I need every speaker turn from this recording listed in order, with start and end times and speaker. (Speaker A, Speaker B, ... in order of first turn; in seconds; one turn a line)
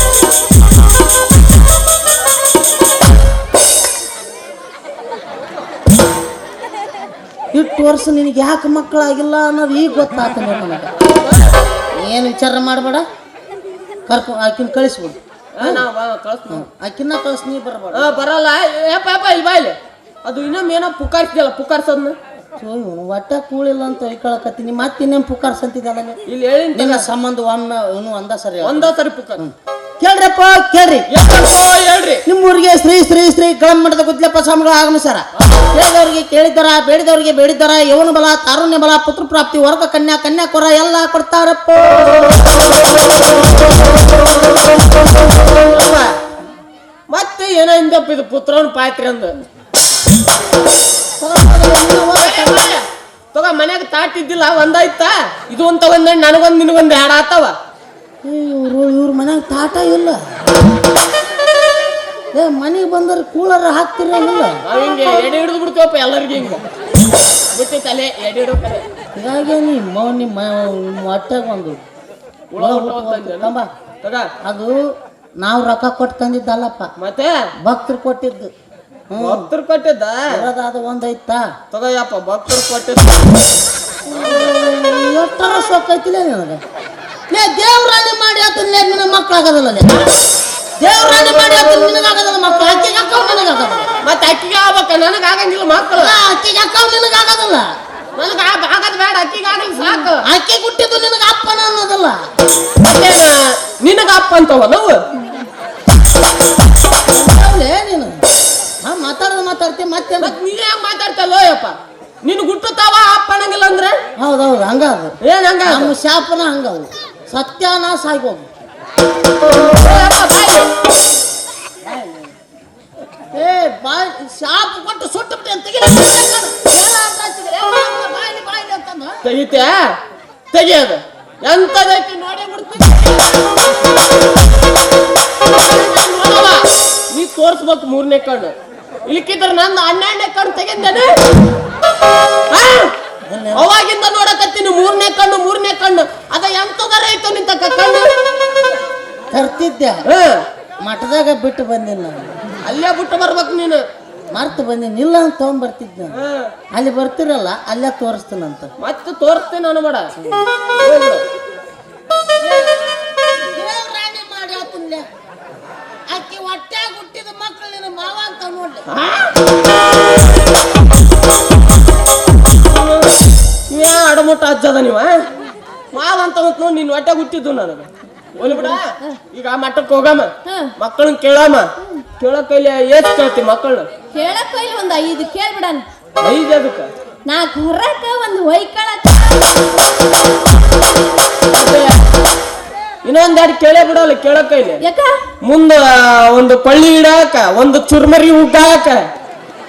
Speaker A: 7.5-11.0
Speaker B: 11.0-11.5
Speaker A: 11.9-13.0
Speaker A: 14.1-15.8
Speaker B: 15.6-16.6
Speaker A: 16.5-18.2
Speaker B: 17.9-22.1
Speaker A: 22.6-26.2
Speaker B: 26.3-27.1
Speaker A: 26.7-31.1
Speaker B: 28.6-29.4
Speaker B: 31.1-32.2
Speaker A: 32.2-42.4
Speaker B: 45.7-46.1
Speaker B: 47.1-49.4
Speaker A: 51.2-52.6
Speaker B: 52.1-57.5
Speaker A: 58.2-60.2
Speaker A: 62.3-64.6
Speaker B: 64.6-66.6
Speaker B: 67.5-68.8
Speaker A: 69.2-71.8
Speaker B: 72.5-74.3
Speaker A: 72.6-73.7
Speaker A: 74.4-74.8
Speaker A: 75.4-76.9
Speaker B: 77.0-77.5
Speaker A: 77.6-78.5
Speaker A: 79.1-79.5
Speaker B: 79.2-80.4
Speaker A: 80.3-81.5
Speaker B: 81.7-83.5
Speaker A: 84.1-86.6
Speaker B: 84.1-84.5
Speaker A: 87.3-90.1
Speaker A: 90.8-94.0
Speaker B: 94.0-96.2
Speaker A: 95.9-97.7
Speaker B: 98.2-100.2
Speaker A: 100.1-102.2
Speaker B: 102.8-105.0
Speaker A: 107.1-108.2
Speaker A: 108.8-110.3
Speaker B: 110.2-114.0
Speaker A: 114.2-115.1
Speaker B: 115.2-116.0
Speaker A: 115.7-118.5
Speaker B: 119.6-120.7
Speaker A: 123.3-129.2
Speaker B: 129.2-129.9
Speaker B: 130.5-133.7
Speaker B: 135.4-138.5
Speaker B: 139.1-141.3
Speaker B: 142.5-142.9
Speaker A: 143.3-143.7
Speaker B: 143.5-148.1
Speaker A: 149.3-150.0
Speaker B: 150.1-150.4
Speaker A: 150.8-152.3
Speaker B: 152.6-153.8
Speaker A: 154.3-156.2
Speaker B: 156.1-156.5
Speaker A: 156.8-158.7
Speaker B: 158.8-160.1
Speaker B: 160.8-161.2
Speaker A: 162.4-162.7
Speaker A: 163.3-165.0
Speaker A: 166.1-168.9
Speaker B: 168.9-169.3
Speaker B: 172.6-173.2
Speaker B: 173.7-175.3
Speaker B: 175.9-183.9
Speaker C: 180.4-180.7
Speaker C: 184.1-185.8
Speaker B: 186.2-186.9
Speaker C: 187.3-189.5
Speaker B: 191.5-192.0
Speaker B: 193.0-194.8
Speaker C: 194.8-195.3
Speaker B: 195.4-199.0